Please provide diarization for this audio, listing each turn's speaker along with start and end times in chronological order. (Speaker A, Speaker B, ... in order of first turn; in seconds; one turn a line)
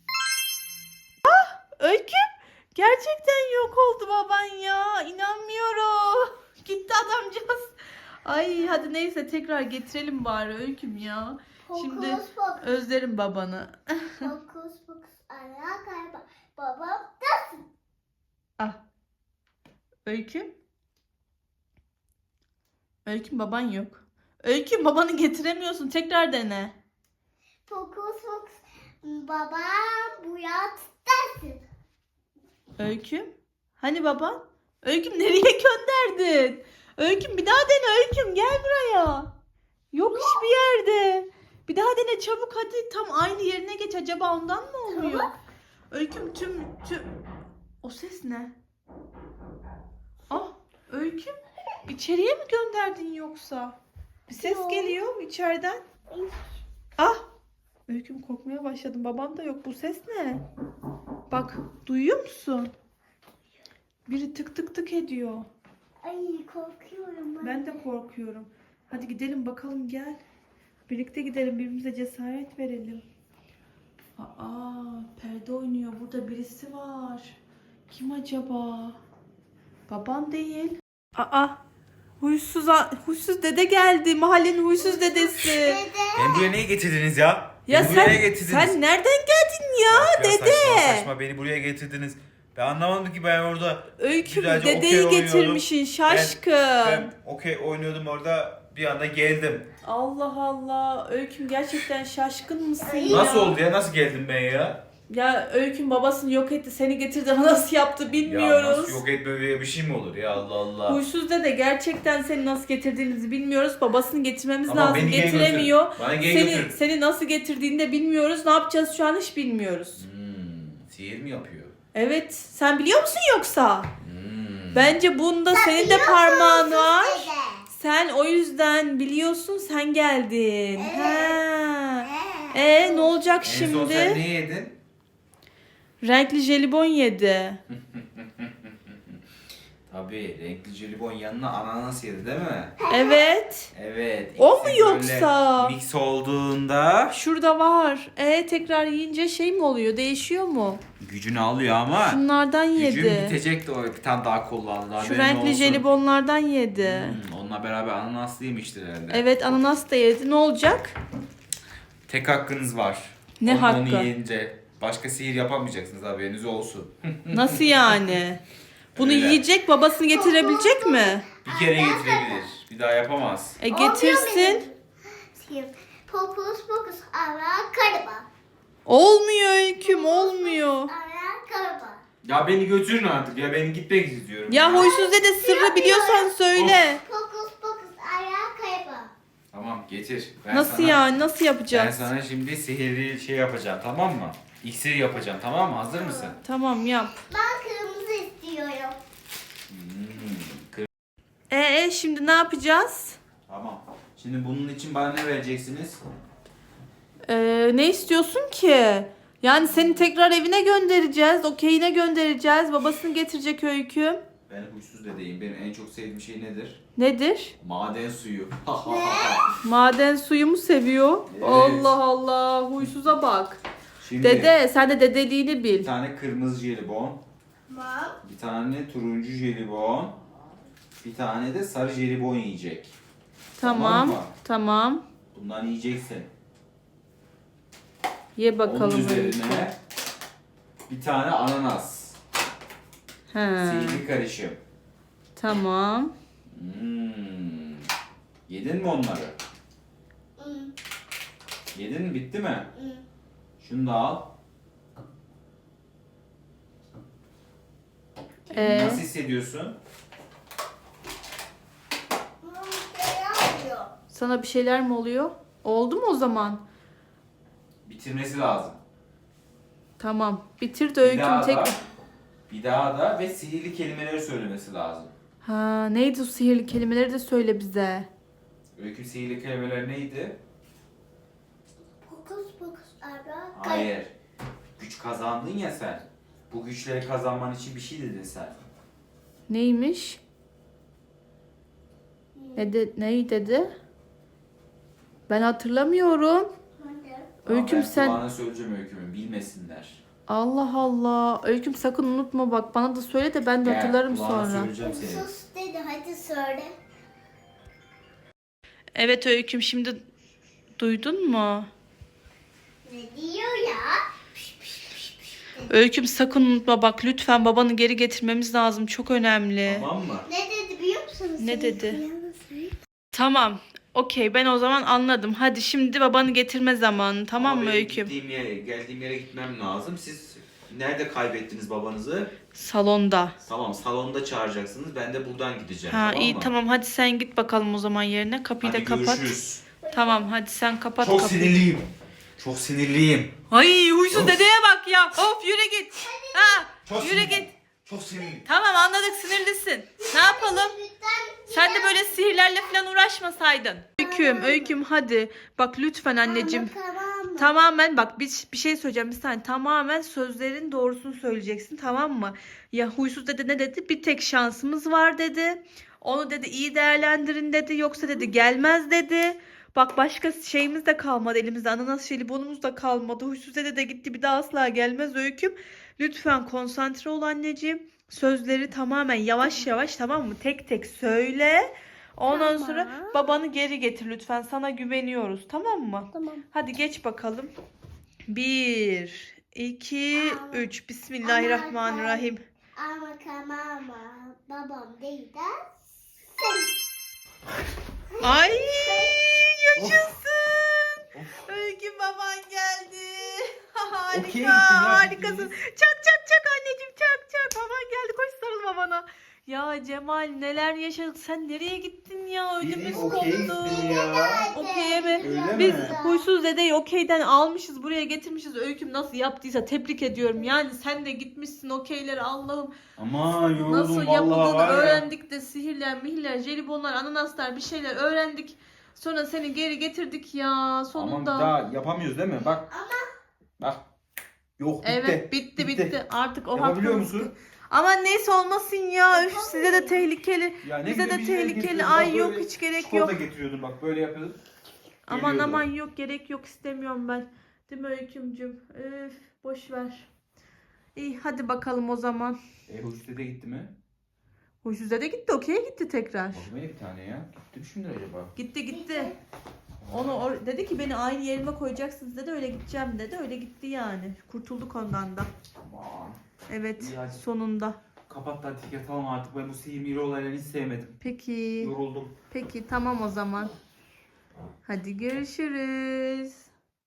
Speaker A: 1.2-14.3
Speaker B: 11.7-12.8
Speaker B: 14.2-17.6
Speaker A: 20.0-20.5
Speaker A: 23.0-26.7
Speaker B: 27.7-31.6
Speaker A: 32.8-39.3
Speaker A: 39.9-45.3
Speaker B: 44.9-45.3
Speaker A: 45.9-47.1
Speaker A: 47.8-48.5
Speaker A: 50.3-51.3
Speaker A: 51.9-53.8
Speaker A: 54.3-55.8
Speaker B: 54.4-55.0
Speaker B: 56.1-56.4
Speaker A: 57.9-60.4
Speaker A: 61.3-62.7
Speaker A: 64.0-65.5
Speaker B: 66.0-67.8
Speaker A: 67.4-70.2
Speaker A: 70.9-73.0
Speaker A: 74.2-77.3
Speaker A: 77.9-79.0
Speaker A: 79.9-81.6
Speaker A: 82.2-85.8
Speaker B: 84.8-86.5
Speaker C: 86.1-88.8
Speaker A: 87.7-91.1
Speaker C: 89.9-99.7
Speaker A: 94.0-97.1
Speaker A: 99.8-103.6
Speaker B: 102.8-103.5
Speaker C: 103.1-104.8
Speaker A: 105.1-109.0
Speaker C: 108.2-111.0
Speaker A: 110.8-120.0
Speaker C: 114.7-116.8
Speaker C: 120.0-121.7
Speaker A: 121.9-123.9
Speaker C: 124.0-124.9
Speaker A: 124.7-134.2
Speaker B: 125.5-127.7
Speaker B: 130.8-131.4
Speaker B: 132.1-133.2
Speaker C: 133.4-134.8
Speaker A: 136.0-137.6
Speaker C: 137.7-138.9
Speaker C: 139.9-142.7
Speaker B: 142.8-143.2
Speaker A: 142.9-143.7
Speaker C: 143.7-147.2
Speaker A: 144.4-145.7
Speaker A: 147.1-150.8
Speaker C: 151.0-152.2
Speaker A: 152.0-153.3
Speaker C: 152.8-155.8
Speaker A: 155.0-157.2
Speaker C: 156.8-159.4
Speaker A: 159.1-160.9
Speaker C: 162.1-168.0
Speaker A: 163.4-164.1
Speaker A: 167.3-168.4
Speaker C: 168.9-169.4
Speaker A: 168.9-171.2
Speaker B: 170.1-172.5
Speaker C: 171.4-173.6
Speaker A: 173.6-174.7
Speaker B: 173.7-178.3
Speaker A: 178.8-180.9
Speaker B: 179.8-182.0
Speaker C: 182.2-184.9
Speaker A: 184.5-187.0
Speaker B: 184.7-186.3
Speaker C: 186.5-186.8
Speaker B: 187.0-189.1
Speaker C: 189.5-191.0
Speaker A: 190.5-192.1
Speaker C: 191.7-196.4
Speaker B: 195.9-196.3
Speaker A: 196.4-197.2
Speaker B: 197.3-199.0
Speaker C: 199.7-200.9
Speaker A: 201.5-203.2
Speaker C: 203.5-206.0
Speaker A: 207.3-214.2
Speaker C: 209.6-210.1
Speaker C: 214.5-216.8
Speaker A: 216.9-217.5
Speaker C: 217.6-219.5
Speaker B: 218.8-219.6
Speaker A: 219.6-223.6
Speaker C: 221.3-221.9
Speaker C: 224.0-224.5
Speaker A: 224.2-225.9
Speaker C: 225.8-227.2
Speaker B: 227.7-228.2
Speaker C: 228.2-230.2
Speaker C: 231.0-232.9
Speaker A: 233.6-235.0
Speaker C: 233.6-234.3
Speaker C: 235.3-236.3
Speaker A: 238.3-239.7
Speaker C: 238.6-239.8
Speaker C: 240.9-242.2
Speaker A: 243.3-244.0
Speaker C: 243.6-244.6
Speaker A: 245.3-246.1
Speaker C: 246.5-247.8
Speaker C: 248.5-249.3
Speaker B: 250.4-250.7
Speaker C: 251.7-252.7
Speaker B: 252.7-253.0
Speaker C: 253.6-254.3
Speaker A: 258.5-259.1
Speaker C: 258.5-259.8
Speaker B: 262.4-263.9
Speaker A: 264.1-266.6
Speaker C: 267.9-268.8
Speaker A: 270.0-271.8
Speaker C: 271.0-271.8
Speaker C: 272.5-275.1
Speaker A: 275.4-278.1
Speaker C: 278.8-280.4
Speaker B: 282.0-283.9
Speaker C: 283.5-284.1
Speaker C: 284.8-288.6
Speaker A: 289.5-290.2
Speaker B: 292.3-292.7
Speaker A: 292.6-293.7
Speaker A: 295.3-296.5
Speaker B: 296.8-297.4
Speaker A: 297.4-298.2
Speaker C: 297.5-300.0
Speaker A: 300.3-304.7
Speaker C: 303.6-305.3
Speaker B: 304.8-306.7
Speaker A: 308.9-310.0
Speaker A: 310.8-311.7
Speaker B: 312.8-315.7
Speaker A: 315.7-319.9
Speaker C: 319.6-320.3
Speaker B: 320.2-322.7
Speaker A: 321.4-322.0
Speaker A: 323.1-328.1
Speaker C: 327.4-332.3
Speaker A: 332.5-333.4
Speaker C: 333.4-336.5
Speaker A: 335.9-339.4
Speaker C: 338.6-339.6
Speaker B: 339.8-340.3
Speaker A: 339.9-341.6
Speaker C: 341.0-343.3
Speaker A: 343.5-347.5
Speaker C: 344.1-344.4
Speaker B: 346.1-346.6
Speaker C: 346.8-348.4
Speaker A: 348.4-350.7
Speaker B: 350.0-352.5
Speaker A: 351.5-356.7
Speaker B: 354.0-354.8
Speaker B: 356.2-357.5
Speaker A: 357.4-387.5
Speaker B: 368.0-368.3
Speaker B: 382.3-383.3
Speaker B: 386.1-386.4
Speaker A: 388.3-392.4
Speaker B: 390.1-390.7
Speaker B: 391.2-395.5
Speaker B: 396.3-396.7
Speaker B: 398.1-399.2
Speaker A: 398.2-413.9
Speaker C: 399.8-400.1
Speaker C: 401.1-401.5
Speaker C: 404.1-405.5
Speaker C: 412.6-414.5
Speaker B: 412.9-416.2
Speaker A: 414.5-422.7
Speaker C: 415.2-415.9
Speaker C: 423.0-425.0
Speaker A: 423.3-431.5
Speaker C: 430.9-432.6
Speaker B: 432.7-433.1
Speaker C: 434.6-436.0
Speaker A: 434.8-443.1
Speaker C: 436.5-437.3
Speaker B: 439.1-440.1
Speaker C: 440.6-444.4
Speaker A: 445.1-450.1
Speaker C: 445.1-445.6
Speaker A: 450.9-452.4
Speaker C: 452.7-453.7
Speaker A: 454.6-456.5
Speaker C: 456.3-458.3
Speaker A: 458.4-459.1
Speaker B: 458.7-459.2
Speaker C: 459.8-460.2
Speaker A: 459.9-465.3
Speaker C: 465.6-466.2
Speaker A: 466.5-467.8
Speaker C: 466.8-467.2
Speaker C: 468.1-471.0
Speaker A: 471.0-471.7
Speaker C: 471.6-472.1
Speaker A: 472.3-473.5
Speaker A: 474.6-476.5